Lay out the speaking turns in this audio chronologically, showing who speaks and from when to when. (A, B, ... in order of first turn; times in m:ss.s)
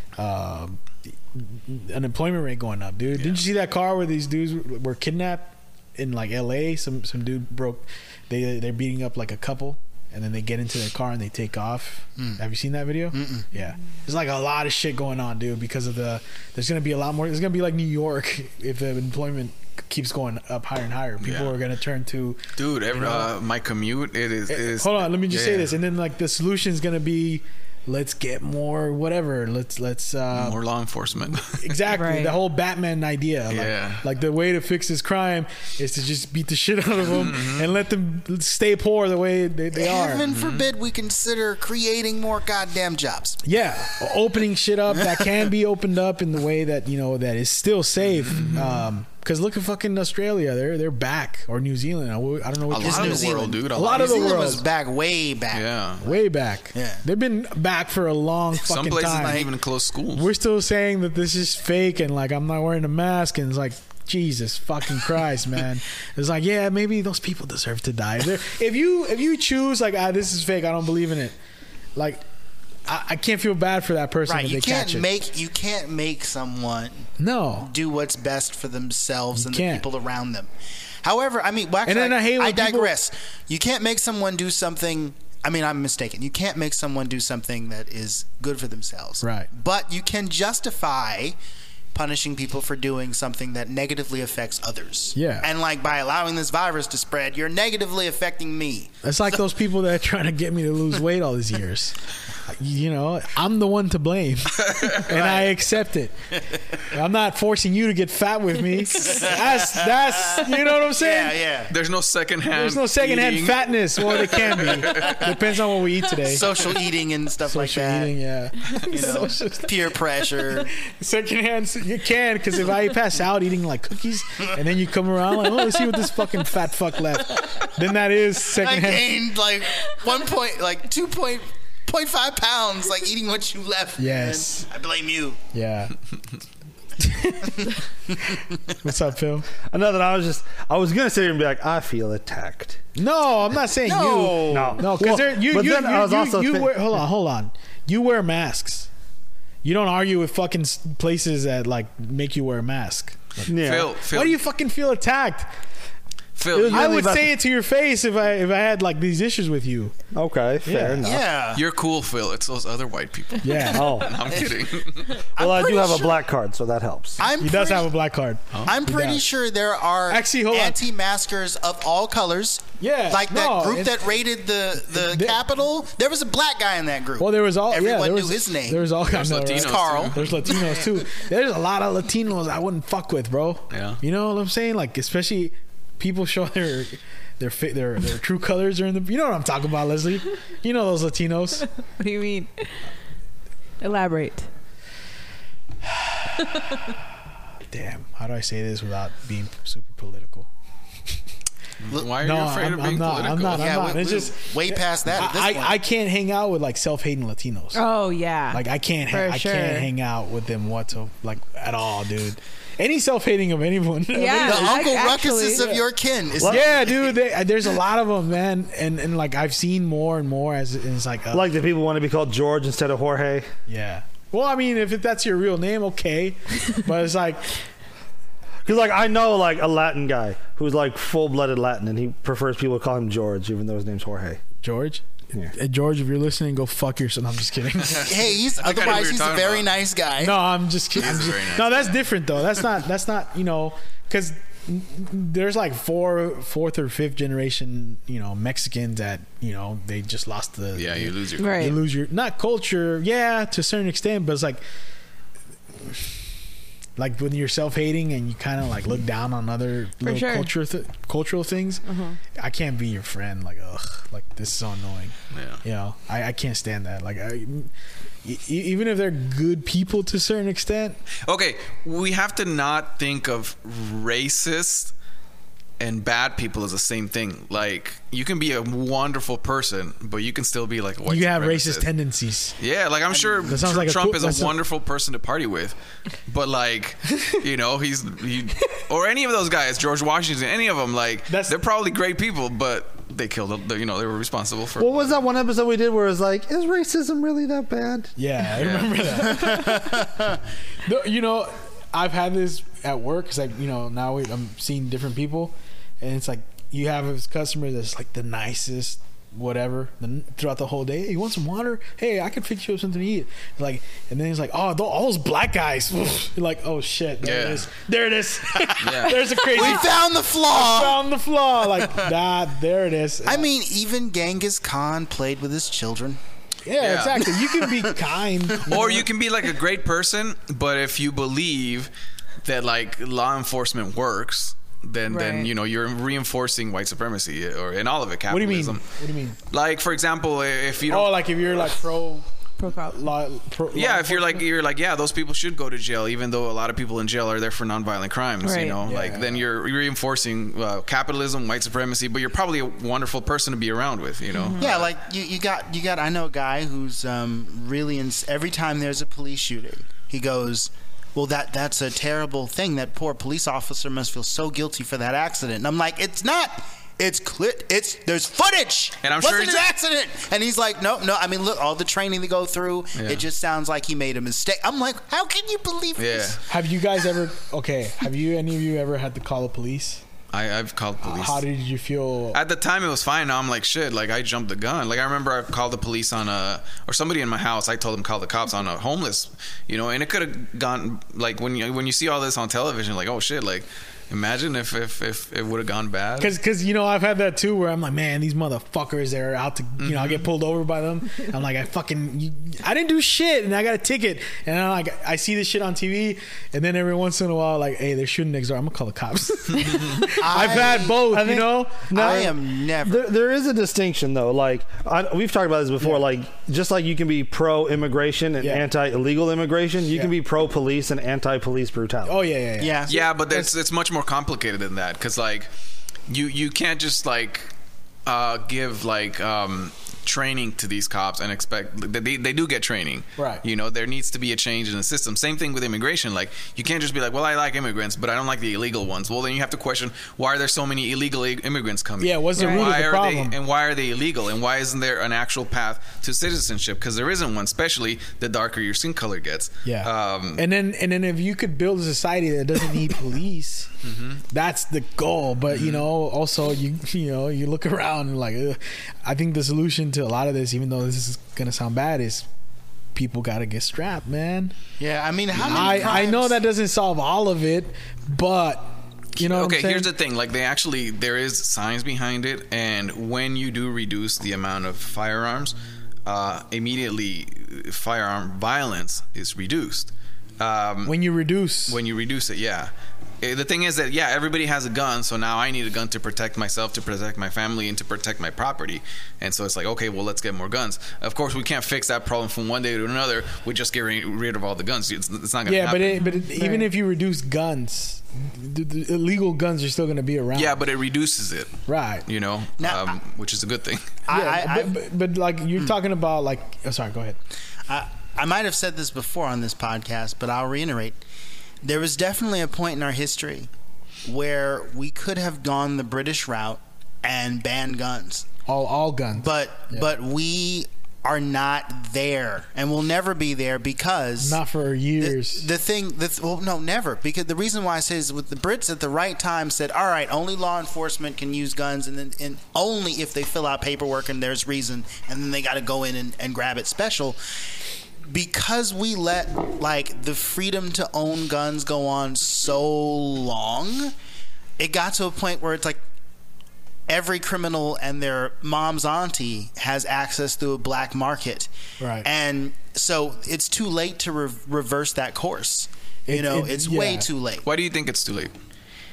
0:00.2-0:23.3 A
0:03.2-0:03.4 B
0:13.1-0:13.5 C
0:21.2-0:21.5 B
0:22.6-0:25.7 B
0:24.5-0:30.6 A
0:30.3-0:31.8 B
0:31.4-0:40.2 A
0:31.9-0:32.4 D
0:33.5-0:34.1 B
0:37.0-0:37.7 B
0:39.7-0:43.4 C
0:40.2-0:40.7 B
0:43.4-0:54.6 A
0:48.2-0:48.8 B
0:52.7-0:54.6 B
0:52.8-0:56.2 C
0:55.5-0:56.0 B
0:56.0-0:59.5 A
0:56.7-0:57.0 C
0:58.6-1:00.3 B
0:59.2-0:59.5 C
1:00.1-1:11.4 A
1:12.0-1:12.2 A
1:12.9-1:15.1 A
1:14.3-1:20.5 C
1:17.2-1:17.7 A
1:19.3-1:19.8 A
1:21.0-1:31.4 C
1:21.8-1:22.9 A
1:29.2-1:29.5 A
1:31.9-1:38.9 C
1:35.2-1:35.5 A
1:39.0-1:46.1 A
1:44.7-1:45.1 B
1:45.1-1:45.5 C
1:46.9-1:51.4 A
1:49.0-1:51.7 C
1:51.7-1:55.3 B
1:52.5-1:56.5 A
1:56.2-1:58.1 C
1:57.5-2:00.0 A
1:58.8-2:00.7 C
2:00.7-2:09.1 A
2:08.5-2:15.4 C
2:14.0-2:14.7 A
2:15.5-2:15.9 A
2:17.0-2:19.5 A
2:19.6-2:22.8 E
2:23.0-2:28.9 A
2:23.8-2:24.8 C
2:24.4-2:27.0 E
2:29.6-2:35.5 A
2:33.5-2:33.9 E
2:33.6-2:34.4 B
2:36.4-2:37.1 B
2:36.5-2:37.3 E
2:36.6-2:40.0 A
2:40.1-2:41.2 E
2:40.6-2:41.2 A
2:41.0-2:41.6 C
2:41.6-2:45.2 B
2:43.4-2:44.1 A
2:43.7-2:44.3 E
2:45.4-2:46.2 C
2:45.4-2:47.3 E
2:47.2-2:47.9 C
2:47.4-2:49.3 A
2:48.7-2:58.9 C
2:50.1-2:50.8 A
2:52.8-2:54.0 A
2:54.9-2:55.4 A
2:57.2-3:11.7 A
2:59.0-3:00.6 B
2:59.5-3:00.4 C
3:03.7-3:04.0 B
3:11.9-3:12.8 D
3:13.8-3:14.5 D
3:15.8-3:16.7 A
3:16.4-3:16.9 D
3:17.7-3:20.5 A
3:21.8-3:23.7 B
3:22.2-3:27.8 A
3:23.5-3:25.8 C
3:27.7-3:29.9 D
3:28.5-3:34.9 A
3:34.1-3:35.7 D
3:34.4-3:37.1 C
3:35.6-3:35.8 A
3:36.4-3:41.5 A
3:36.4-3:36.7 E
3:41.3-3:43.5 E
3:43.7-3:47.5 A
3:48.6-3:54.4 E
3:54.6-3:58.2 A
3:57.8-3:59.7 B
3:58.0-4:00.4 C
4:00.2-4:14.6 A
4:01.0-4:02.0 B
4:10.8-4:11.6 B
4:11.4-4:11.8 D
4:17.0-4:21.8 A
4:20.0-4:20.5 D
4:21.9-4:22.2 D
4:22.3-4:27.7 A
4:25.3-4:25.6 B
4:28.2-4:31.0 A
4:31.2-4:34.9 B
4:35.8-4:41.9 B
4:41.1-4:42.6 A
4:42.6-4:45.8 B
4:43.5-4:44.5 A
4:46.3-4:55.2 B
4:51.3-4:51.6 A
4:54.8-4:58.1 E
4:58.2-5:00.0 A
4:58.6-4:59.3 B
4:59.4-5:00.2 C
5:00.8-5:23.5 A
5:17.2-5:17.7 B
5:18.8-5:19.2 B
5:19.5-5:21.0 C
5:23.3-5:26.2 C
5:26.6-5:29.1 A
5:26.8-5:27.3 B
5:27.5-5:27.9 C
5:28.6-5:31.9 B
5:32.4-5:38.9 B
5:35.1-5:35.5 D
5:38.3-5:39.4 A
5:39.5-5:41.2 B
5:40.9-5:42.3 A
5:42.6-5:43.0 D
5:42.9-5:44.4 A
5:43.7-5:54.9 B
5:48.4-5:48.8 D
5:48.8-5:49.4 A
5:54.3-5:54.6 D
5:54.6-6:16.4 C
6:09.0-6:09.7 B
6:13.0-6:13.2 B
6:16.0-6:16.4 B
6:16.5-6:20.0 A
6:20.3-6:21.4 B
6:21.0-6:22.4 A
6:22.3-6:36.3 B
6:36.2-6:51.9 A
6:39.8-6:40.3 B
6:50.2-6:51.1 C
6:50.9-7:02.2 E
6:51.9-6:53.0 C
7:02.1-7:03.5 A
7:02.6-7:03.1 C
7:02.9-7:05.5 B
7:06.1-7:07.5 B
7:08.1-7:30.4 B
7:13.2-7:13.4 A
7:22.0-7:23.4 A
7:22.4-7:22.7 D
7:29.6-7:33.7 A
7:33.8-7:34.2 B
7:34.3-7:42.3 A
7:35.5-7:35.9 B
7:43.0-7:44.5 A
7:44.8-7:46.4 C
7:45.3-7:49.9 A
7:49.2-7:55.6 B
7:56.1-8:01.0 B
8:00.8-8:01.8 A
8:01.7-8:16.1 B
8:15.5-8:20.6 A
8:16.0-8:16.4 D
8:20.3-8:24.0 B
8:21.7-8:22.1 A
8:22.6-8:23.0 C
8:24.1-8:24.8 C
8:24.1-8:27.2 A
8:27.7-8:31.0 C
8:31.6-8:33.5 C
8:34.0-8:38.3 C
8:38.5-8:39.9 A
8:39.2-8:44.4 C
8:44.2-8:45.5 A
8:45.0-8:57.2 C
8:58.1-9:03.9 C
9:04.6-9:05.8 C
9:06.9-9:11.5 C
9:11.8-9:12.1 A
9:12.0-9:17.5 C
9:16.1-9:17.1 A
9:17.4-9:18.3 B